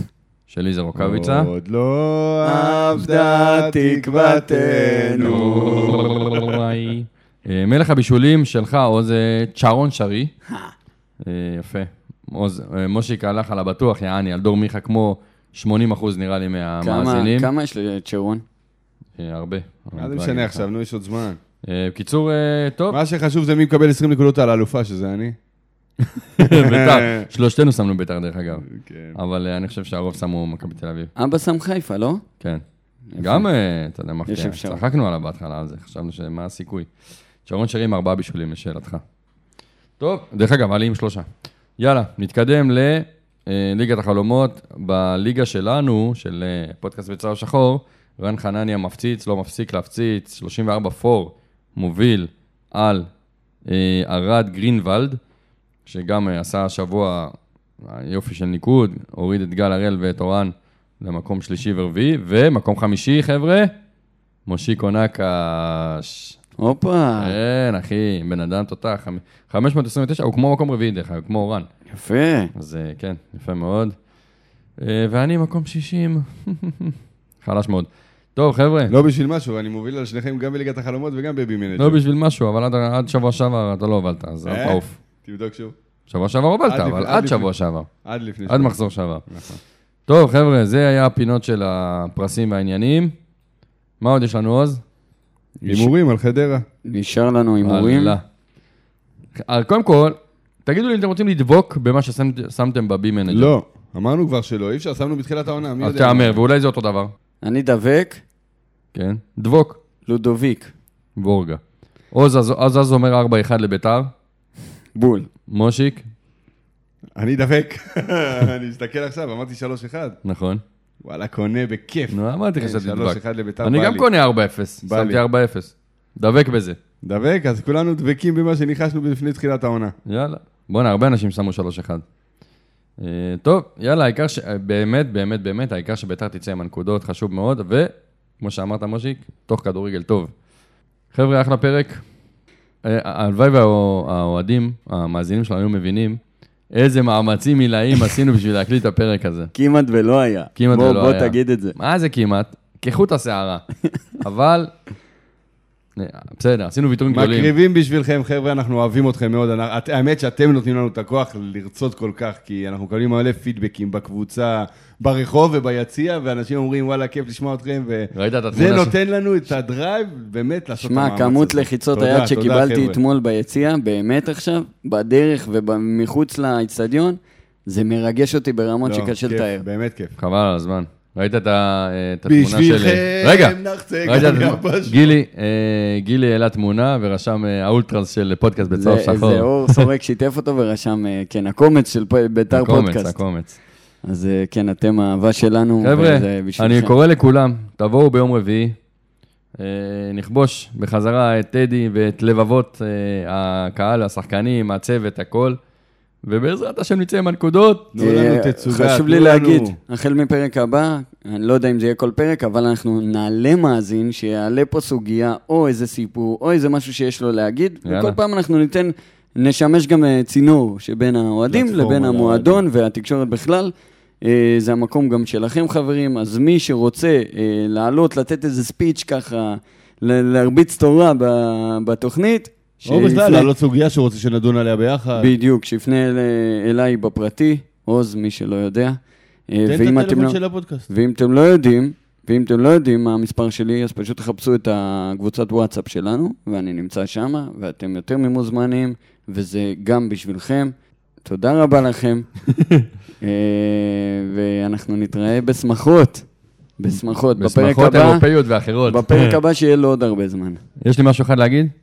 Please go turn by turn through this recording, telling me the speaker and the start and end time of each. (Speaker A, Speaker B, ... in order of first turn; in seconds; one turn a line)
Speaker A: 0.5-1.5
Speaker B: 1.0-6.6
Speaker C: 2.4-5.4
Speaker A: 5.3-10.3
Speaker A: 11.2-17.5
Speaker C: 16.8-18.4
Speaker A: 19.2-20.6
Speaker B: 20.0-21.4
Speaker A: 21.6-23.0
Speaker B: 22.9-25.4
Speaker A: 26.2-31.1
Speaker B: 26.4-27.3
Speaker B: 28.7-29.2
Speaker C: 31.2-32.2
Speaker C: 33.1-33.5
Speaker A: 33.2-36.9
Speaker C: 34.3-34.8
Speaker A: 37.5-39.0
Speaker A: 40.0-41.3
Speaker A: 41.8-53.1
Speaker A: 53.7-55.2
Speaker A: 55.9-63.7
Speaker A: 64.5-66.4
Speaker C: 66.6-67.4
Speaker A: 67.2-71.7
Speaker C: 71.9-72.5
Speaker A: 72.5-74.0
Speaker A: 74.8-78.9
Speaker B: 78.9-82.0
Speaker A: 81.8-85.0
Speaker B: 84.5-85.8
Speaker A: 86.1-87.9
Speaker B: 86.7-87.5
Speaker B: 88.0-89.6
Speaker A: 88.5-89.2
Speaker A: 90.1-93.2
Speaker A: 94.0-94.8
Speaker C: 95.6-95.9
Speaker B: 95.7-96.7
Speaker C: 96.9-98.2
Speaker A: 97.6-98.2
Speaker A: 99.4-103.5
Speaker B: 103.3-106.4
Speaker A: 105.8-107.1
Speaker C: 107.4-108.2
Speaker A: 108.9-109.8
Speaker C: 110.1-110.7
Speaker A: 111.2-111.6
Speaker A: 112.1-114.1
Speaker C: 115.0-115.3
Speaker A: 115.5-116.0
Speaker B: 117.2-120.2
Speaker A: 120.2-120.6
Speaker B: 121.0-124.1
Speaker A: 122.1-126.8
Speaker B: 124.8-125.2
Speaker B: 127.0-129.9
Speaker A: 130.1-132.0
Speaker A: 133.0-140.3
Speaker A: 141.1-142.0
Speaker A: 142.8-146.2
Speaker A: 146.7-149.5
Speaker C: 149.5-151.8
Speaker A: 150.6-153.7
Speaker A: 154.2-154.7
Speaker A: 156.0-157.5
Speaker B: 157.1-173.0
Speaker A: 168.1-169.0
Speaker C: 170.8-179.7
Speaker B: 178.8-180.2
Speaker A: 180.2-189.8
Speaker B: 182.3-185.2
Speaker C: 188.7-193.2
Speaker A: 192.5-193.6
Speaker C: 194.1-196.9
Speaker A: 195.8-198.8
Speaker A: 199.6-205.6
Speaker A: 206.2-207.9
Speaker B: 207.9-209.8
Speaker C: 208.0-233.5
Speaker A: 217.8-218.2
Speaker B: 221.5-222.6
Speaker B: 232.9-235.3
Speaker C: 235.2-239.0
Speaker C: 239.5-252.3
Speaker B: 239.7-240.9
Speaker A: 252.6-252.9
Speaker C: 253.2-256.3
Speaker C: 256.8-258.3
Speaker A: 257.4-259.4
Speaker C: 258.9-260.6
Speaker A: 260.8-261.7